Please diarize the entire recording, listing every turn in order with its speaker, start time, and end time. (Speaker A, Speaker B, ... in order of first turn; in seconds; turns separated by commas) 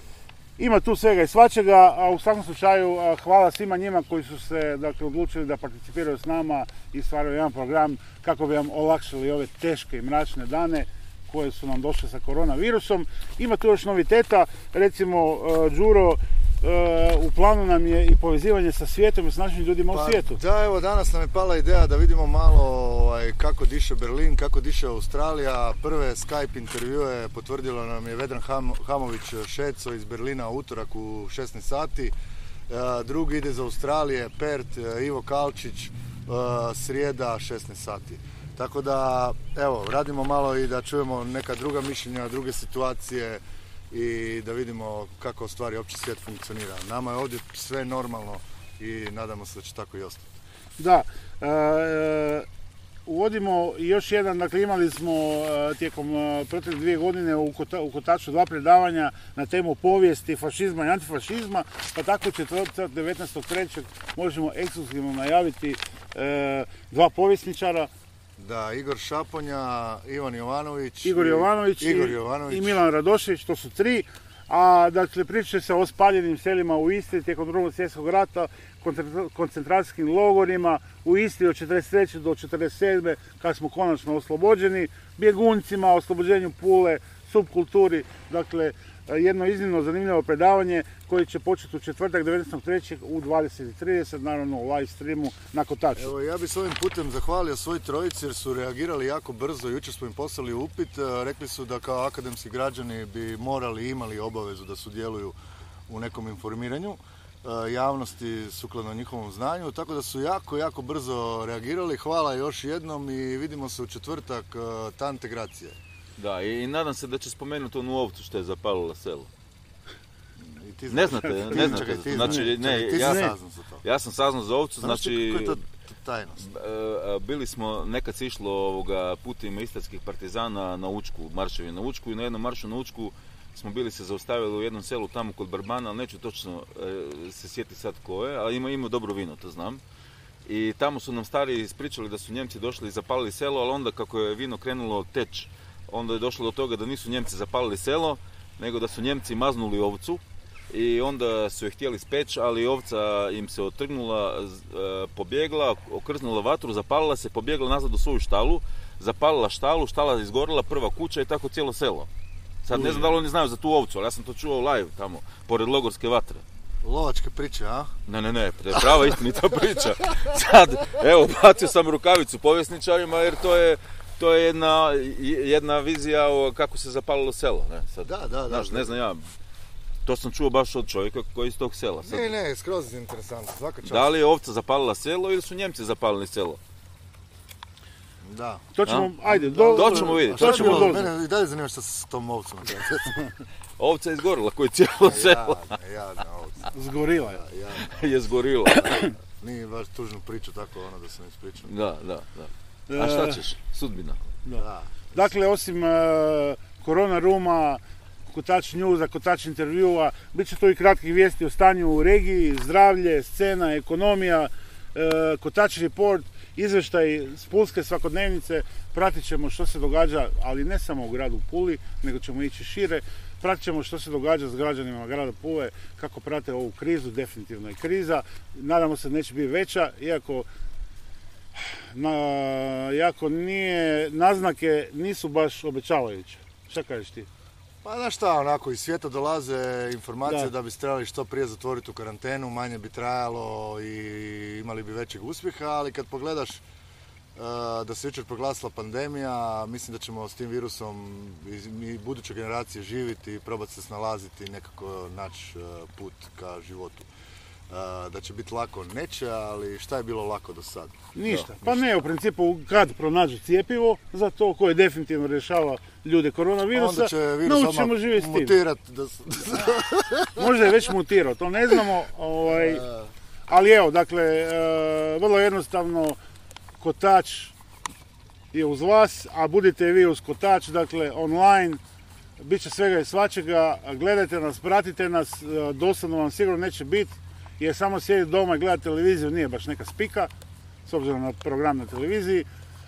Speaker A: 0.6-20.4, Speaker B: 19.9-32.1, Speaker B: 32.7-50.3, Speaker A: 50.8-52.5, Speaker A: 53.1-67.9, Speaker B: 68.4-72.8, Speaker A: 71.0-96.1, Speaker B: 96.0-105.4, Speaker B: 105.9-115.8, Speaker C: 116.2-119.3, Speaker B: 120.4-123.8, Speaker C: 120.9-125.6, Speaker A: 121.5-123.3, Speaker B: 124.8-126.5, Speaker C: 126.4-139.8, Speaker C: 140.5-162.1, Speaker C: 162.6-166.4, Speaker A: 162.7-163.2, Speaker B: 166.8-167.9, Speaker C: 168.1-179.2, Speaker B: 168.7-169.0, Speaker B: 178.0-179.0, Speaker C: 180.1-182.3, Speaker B: 182.1-184.2, Speaker C: 183.8-186.6, Speaker B: 188.2-188.7, Speaker A: 188.7-191.1, Speaker C: 188.9-189.1, Speaker B: 189.2-193.3, Speaker C: 189.7-191.1, Speaker C: 193.8-195.7, Speaker B: 195.0-201.7, Speaker A: 196.7-197.4, Speaker C: 197.8-199.1, Speaker C: 201.6-204.2, Speaker A: 202.9-203.4, Speaker A: 204.4-230.5, Speaker B: 204.6-205.3, Speaker A: 231.6-237.3, Speaker B: 237.8-246.6, Speaker A: 240.3-240.5, Speaker B: 247.4-257.1, Speaker B: 257.7-260.9, Speaker A: 261.1-268.6, Speaker B: 266.7-270.5, Speaker A: 270.4-272.9, Speaker B: 272.5-273.1, Speaker A: 273.5-276.2, Speaker A: 276.8-277.5, Speaker A: 278.5-281.8, Speaker A: 282.4-290.3, Speaker A: 290.9-292.5